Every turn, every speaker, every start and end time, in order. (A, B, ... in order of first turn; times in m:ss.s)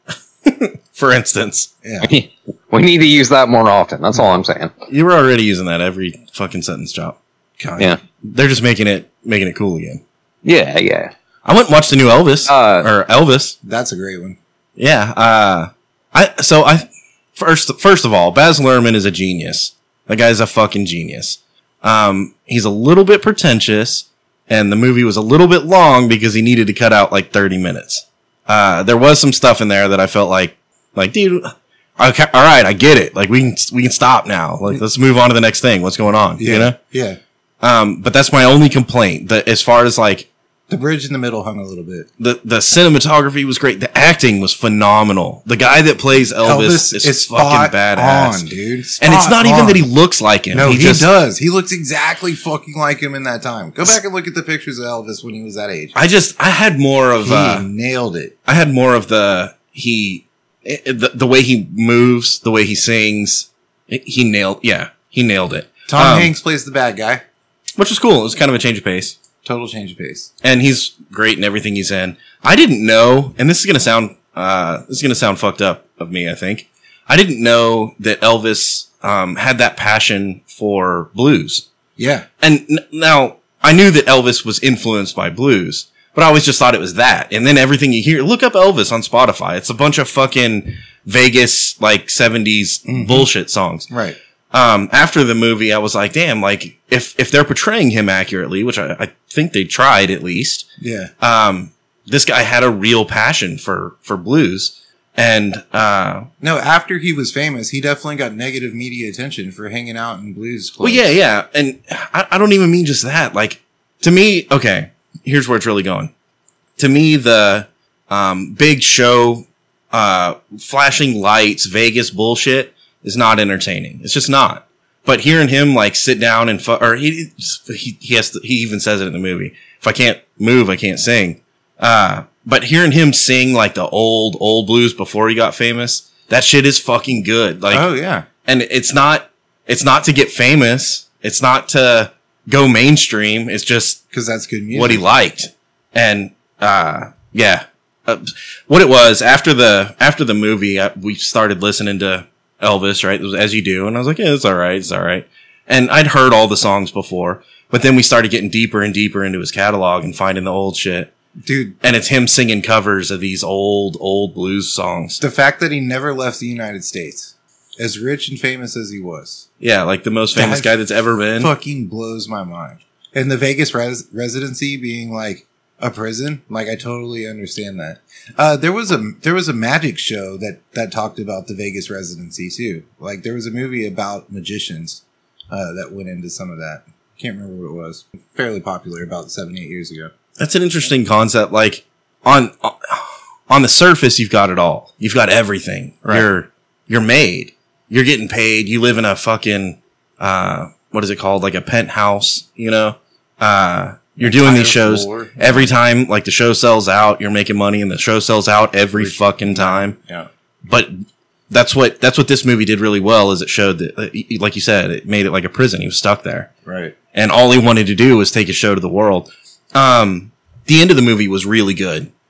0:00.4-0:01.7 A
0:01.8-0:02.1 B
0:02.0-0:04.7 C
0:04.9-0:07.2 A
0:07.6-0:07.9 B
0:08.2-0:10.0 A
0:10.4-0:11.1 C
0:11.4-0:13.6 A
0:12.5-0:12.9 C
0:13.6-0:14.4 B
0:14.8-0:36.8 A
0:36.4-0:37.2 B
0:37.6-0:40.3 A
0:40.7-0:42.1 B
0:42.2-0:48.4 A
0:46.4-0:49.8 B
0:49.0-0:51.1 A
0:50.5-0:55.9 B
0:55.9-0:57.6 A
0:57.2-0:58.3 B
0:58.4-1:06.3 A
1:05.9-1:07.2 B
1:07.8-1:09.2 A
1:09.4-1:10.3 B
1:10.4-1:21.6 A
1:22.0-1:22.3 B
1:22.4-1:33.9 A
1:32.9-1:33.3 B
1:33.9-1:34.2 B
1:34.5-1:40.7 A
1:40.8-1:41.1 B
1:41.2-1:46.3 A
1:46.4-1:51.1 B
1:50.8-1:56.1 A
1:56.8-2:17.8 A
2:17.7-2:18.2 B
2:18.4-2:24.0 A
2:24.1-2:25.0 B
2:24.7-2:41.1 A
2:41.4-2:41.8 B
2:41.8-2:45.2 A
2:45.2-2:49.4 B
2:49.6-2:51.5 A
2:50.3-2:50.7 B
2:51.4-3:10.1 B
3:10.4-3:30.0 A
3:24.2-3:25.6 B
3:29.0-3:30.3 B
3:30.6-3:36.5 A
3:36.6-3:36.9 B
3:37.1-3:42.1 A